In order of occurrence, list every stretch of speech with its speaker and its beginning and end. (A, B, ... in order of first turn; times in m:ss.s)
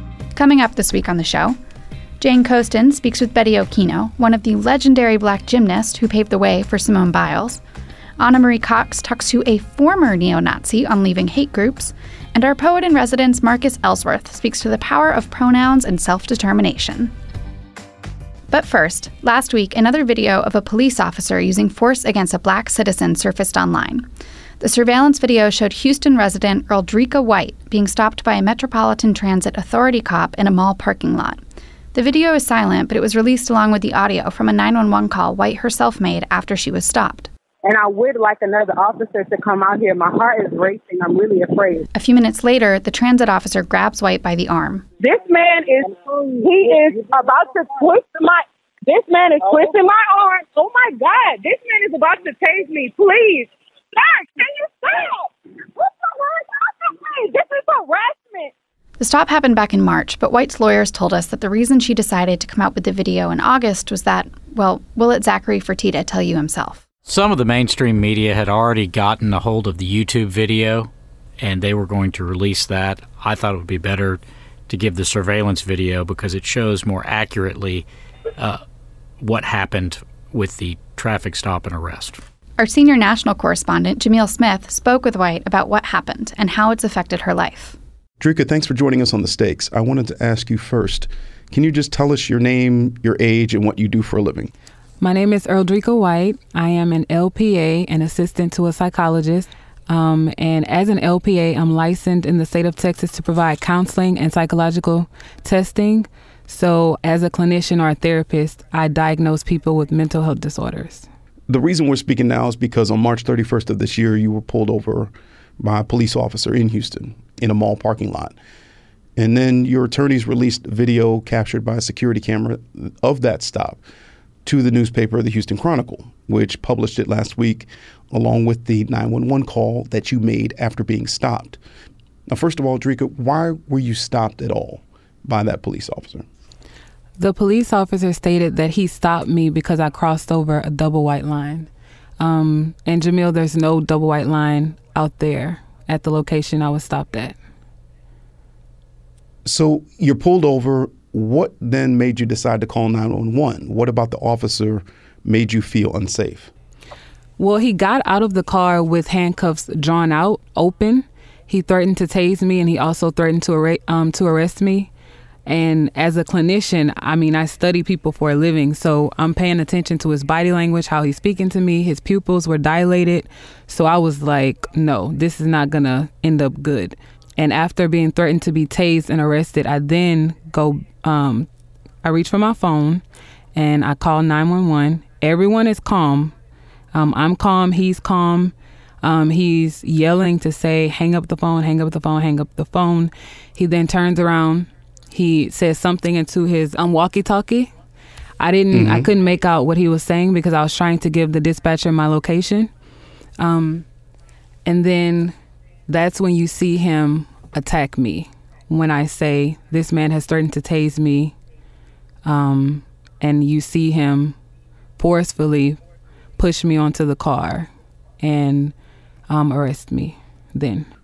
0:00.3-0:01.6 A
0:02.2-0:07.6 A
0:08.2-0:17.1 A
0:18.5-0:24.0 A
0:24.6-0:31.4 A
0:31.9-0:37.3 A
0:37.6-0:41.8 B
0:41.9-0:44.8 A
0:45.0-0:58.5 B
0:59.0-1:06.8 A
1:07.0-1:17.8 C
1:18.4-1:18.6 C
1:19.2-1:22.2 C
1:22.6-1:27.8 A
1:28.2-1:34.5 D
1:35.0-1:51.1 E
1:51.5-1:58.3 D
1:59.2-2:03.8 D
2:04.4-2:11.6 D
2:12.3-2:16.2 D
2:17.2-2:21.7 E
2:22.2-2:27.4 E
2:29.4-2:36.5 D
2:37.4-2:44.9 E
2:45.4-3:01.5 E
3:02.0-3:03.0 E
3:03.5-3:06.3 E
3:06.9-3:17.7 E
3:18.4-3:22.7 E
3:18.7-3:19.1 D
3:23.4-3:23.8 E
3:24.6-3:25.3 E
3:25.9-3:31.3 E
3:32.2-3:34.4 E
3:35.0-3:35.8 E
3:36.4-3:38.7 E
3:39.3-3:40.9 E